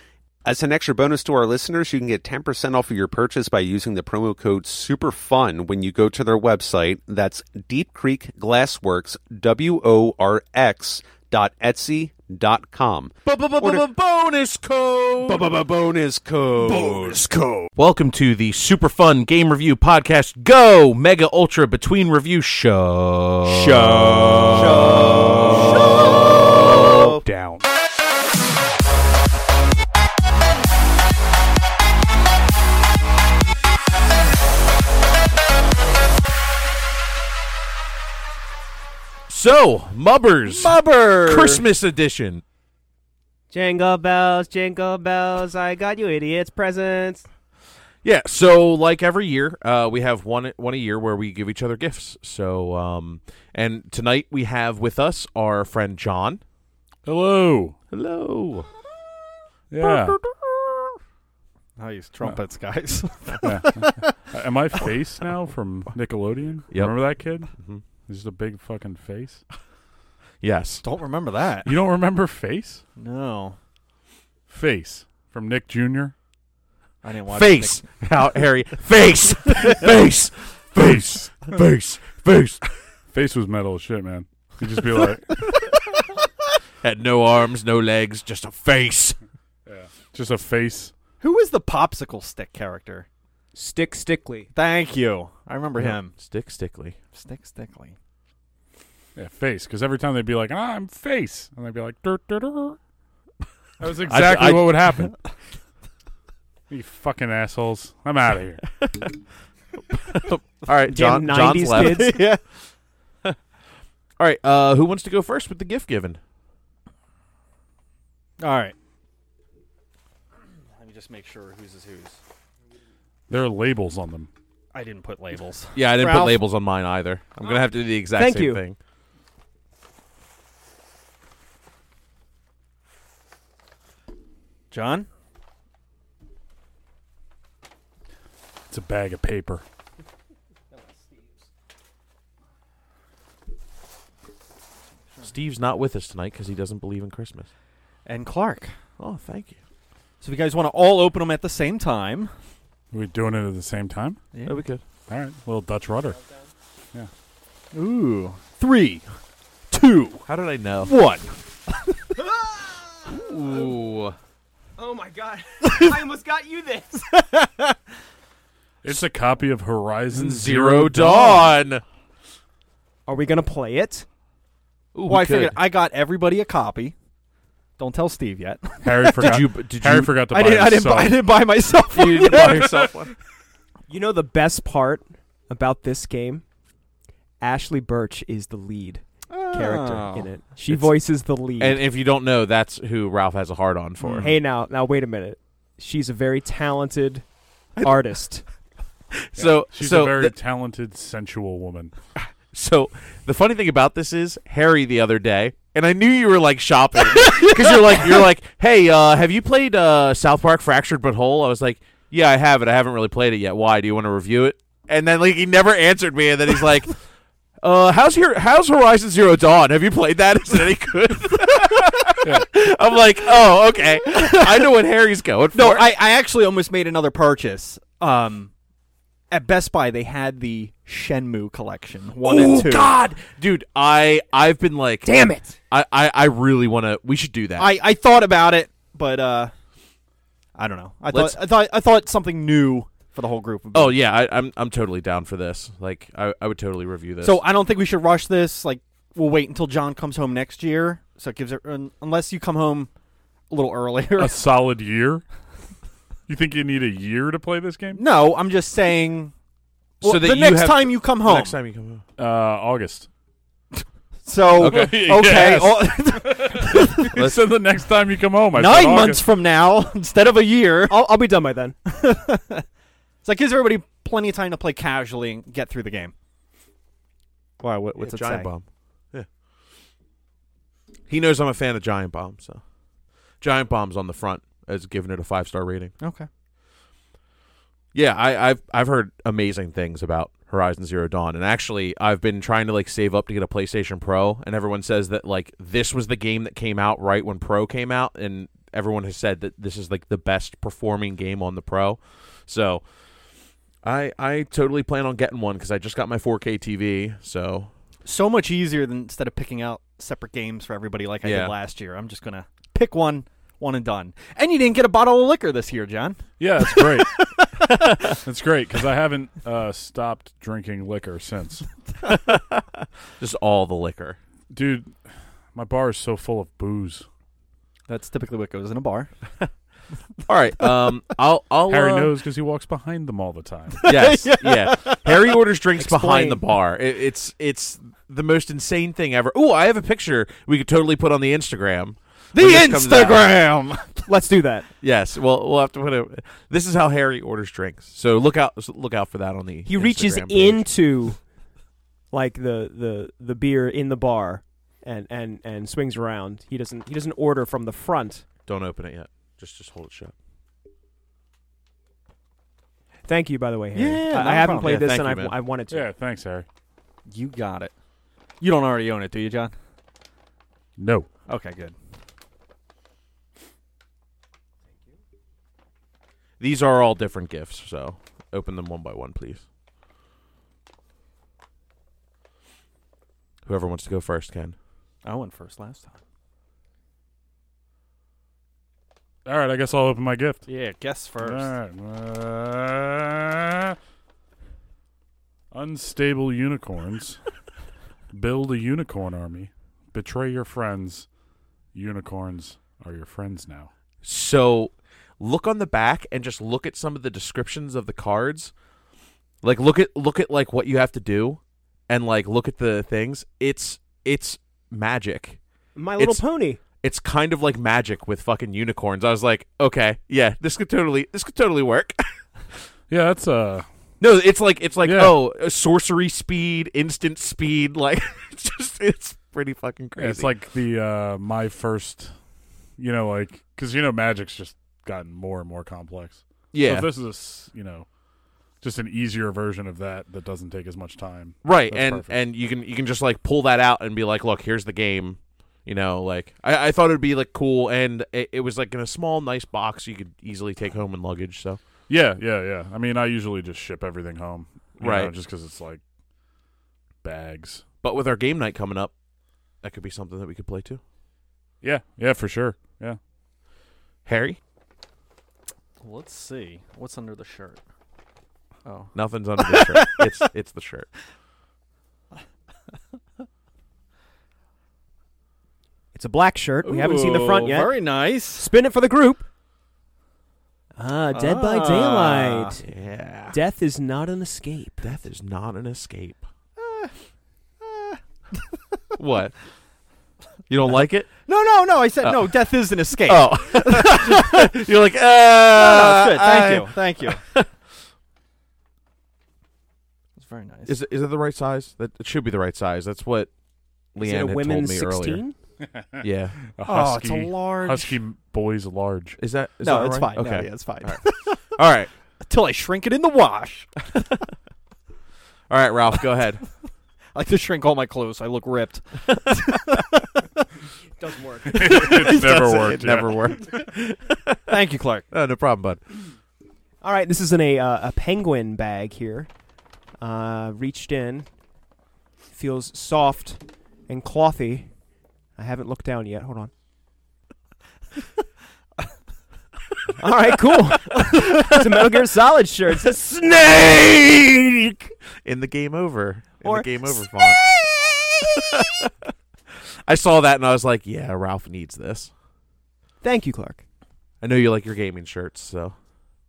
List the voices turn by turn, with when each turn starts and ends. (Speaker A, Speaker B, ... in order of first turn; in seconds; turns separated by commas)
Speaker A: 0.4-13.8, Speaker B: 13.2-15.4, Speaker A: 15.3-17.1, Speaker B: 16.7-17.1, Speaker C: 16.8-17.7, Speaker B: 17.8-27.1, Speaker D: 23.4-27.7, Speaker B: 39.3-42.4, Speaker C: 40.5-41.6, Speaker E: 43.5-47.3, Speaker B: 48.0-56.4, Speaker D: 57.0-57.7, Speaker B: 57.9-58.7, Speaker D: 59.7-60.2, Speaker B: 59.8-60.9, Speaker C: 61.8-64.3, Speaker D: 63.4-69.4, Speaker B: 66.7-67.8, Speaker B: 70.4-70.8, Speaker C: 70.8-71.7, Speaker D: 71.6-72.8, Speaker C: 73.0-73.6, Speaker D: 74.5-76.1, Speaker C: 77.0-77.9, Speaker B: 77.3-82.7, Speaker D: 80.8-81.6, Speaker D: 83.1-85.5, Speaker B: 86.8-89.2, Speaker D: 89.7-90.9, Speaker C: 91.2-93.0, Speaker E: 93.5-94.5, Speaker C: 94.5-96.1, Speaker B: 95.8-97.0, Speaker C: 97.1-98.0, Speaker D: 99.2-102.8, Speaker D: 103.8-105.1, Speaker B: 104.1-105.1, Speaker D: 106.7-108.6, Speaker B: 109.9-112.2, Speaker E: 110.9-112.2, Speaker C: 111.8-112.4, Speaker B: 114.2-116.2, Speaker C: 118.4-118.7, Speaker C: 120.8-122.2, Speaker D: 123.3-124.3, Speaker C: 124.7-126.5, Speaker B: 125.7-128.8, Speaker E: 128.1-128.6, Speaker C: 134.7-135.1, Speaker D: 138.7-139.6, Speaker B: 145.2-147.5, Speaker C: 148.0-148.7, Speaker B: 149.0-149.6, Speaker C: 150.2-152.3, Speaker D: 152.9-154.2, Speaker B: 154.4-154.8, Speaker D: 155.1-156.2, Speaker C: 157.7-159.0, Speaker C: 159.7-160.2, Speaker B: 160.2-160.9, Speaker C: 160.8-161.9, Speaker E: 162.2-163.1, Speaker B: 163.1-164.2, Speaker E: 164.8-167.1, Speaker C: 167.1-167.7, Speaker D: 168.8-171.5, Speaker B: 170.1-171.8, Speaker E: 173.1-174.1, Speaker B: 174.9-175.6, Speaker C: 175.1-176.9, Speaker C: 177.8-179.4, Speaker D: 178.8-181.3, Speaker B: 179.2-180.1, Speaker C: 180.2-182.6, Speaker B: 181.9-183.1, Speaker E: 183.9-186.4, Speaker E: 187.4-191.8, Speaker C: 189.3-190.3, Speaker B: 190.7-190.9, Speaker B: 191.6-194.3, Speaker D: 194.0-194.3, Speaker E: 194.2-197.2, Speaker E: 197.8-198.4, Speaker B: 199.2-200.3, Speaker D: 199.4-201.9, Speaker B: 202.2-217.0, Speaker B: 217.6-225.9, Speaker C: 224.2-224.7, Speaker C: 225.5-228.5, Speaker C: 229.3-232.9, Speaker B: 232.2-237.7, Speaker E: 235.0-235.5, Speaker C: 237.6-239.5, Speaker C: 240.5-244.0, Speaker B: 241.1-241.4, Speaker B: 243.7-247.4, Speaker C: 247.2-252.9, Speaker C: 253.5-254.3, Speaker D: 254.2-255.2, Speaker D: 256.3-258.1, Speaker C: 257.9-259.3, Speaker C: 260.0-261.6, Speaker B: 260.0-262.0, Speaker D: 262.2-263.1, Speaker C: 264.2-267.1, Speaker B: 264.6-265.0, Speaker D: 264.6-269.3, Speaker B: 267.1-267.5, Speaker C: 268.5-270.9, Speaker E: 270.9-271.7, Speaker C: 271.9-272.6, Speaker C: 273.2-276.1, Speaker C: 277.6-278.5, Speaker B: 278.0-279.3, Speaker B: 281.1-282.6, Speaker B: 283.4-285.9, Speaker C: 286.0-286.3, Speaker B: 287.9-302.8, Speaker B: 303.8-307.7, Speaker C: 308.0-317.8, Speaker B: 311.2-311.6, Speaker D: 316.4-317.1, Speaker D: 318.2-321.6, Speaker B: 322.1-322.6, Speaker B: 323.2-324.2, Speaker D: 324.5-324.9, Speaker D: 325.5-327.1, Speaker C: 327.9-329.5, Speaker B: 330.3-332.1, Speaker D: 331.7-333.9, Speaker C: 333.8-335.4, Speaker B: 333.8-343.4, Speaker E: 335.8-336.4, Speaker C: 342.3-344.1, Speaker E: 344.1-344.7, Speaker B: 344.8-350.6, Speaker E: 349.6-351.3, Speaker E: 352.1-358.2, Speaker B: 358.5-360.1, Speaker E: 363.1-365.9, Speaker C: 363.7-364.8, Speaker B: 364.6-365.4, Speaker D: 365.7-366.4, Speaker C: 367.1-367.7, Speaker C: 368.4-369.5, Speaker D: 370.8-371.1, Speaker C: 371.3-371.7, Speaker B: 376.4-379.4, Speaker B: 383.4-384.6, Speaker C: 385.0-386.0, Speaker D: 389.2-390.4, Speaker C: 390.5-391.5, Speaker D: 391.2-393.8, Speaker D: 395.5-397.2, Speaker D: 398.1-401.1, Speaker D: 401.7-403.7, Speaker B: 404.0-408.5, Speaker B: 409.4-415.4, Speaker E: 415.7-416.6, Speaker B: 416.0-416.2, Speaker B: 416.8-422.2, Speaker D: 422.9-423.6, Speaker B: 424.0-430.3, Speaker D: 424.8-425.2, Speaker D: 429.9-432.1, Speaker D: 432.8-437.9, Speaker B: 436.5-436.9, Speaker D: 438.6-442.2, Speaker B: 441.4-451.6, Speaker D: 451.9-455.8, Speaker B: 454.8-455.1, Speaker D: 457.0-457.6, Speaker B: 457.8-458.9, Speaker B: 459.6-460.8, Speaker D: 461.6-463.0, Speaker B: 464.0-464.4, Speaker C: 465.8-467.6, Speaker C: 468.6-470.2, Speaker B: 468.9-470.9, Speaker E: 475.9-479.2, Speaker C: 476.6-478.5, Speaker E: 480.8-482.6, Speaker C: 481.1-482.6, Speaker B: 482.6-483.4, Speaker E: 483.3-484.8, Speaker B: 484.8-486.2, Speaker C: 486.6-486.9, Speaker C: 487.6-488.5, Speaker B: 489.0-489.4, Speaker B: 490.5-491.1, Speaker C: 491.2-494.4, Speaker B: 492.0-497.5, Speaker C: 495.5-497.2, Speaker C: 500.1-500.8, Speaker B: 500.6-503.3, Speaker B: 503.9-505.2, Speaker E: 504.0-505.3, Speaker D: 505.7-509.2, Speaker B: 506.0-506.4, Speaker C: 506.6-508.0, Speaker B: 509.2-511.9, Speaker C: 509.6-511.4, Speaker C: 512.2-514.2, Speaker B: 515.5-516.4, Speaker C: 517.1-520.2, Speaker E: 521.0-521.7, Speaker D: 521.5-523.1, Speaker B: 521.9-524.4, Speaker C: 524.5-525.1, Speaker B: 525.1-525.8, Speaker E: 526.8-529.3, Speaker E: 530.0-531.3, Speaker E: 532.3-534.7, Speaker E: 535.4-536.5, Speaker E: 540.0-544.9, Speaker B: 543.2-544.1, Speaker B: 545.2-547.5, Speaker E: 546.4-548.0, Speaker B: 548.4-548.9, Speaker B: 549.9-552.1, Speaker E: 553.0-553.6, Speaker B: 554.2-555.7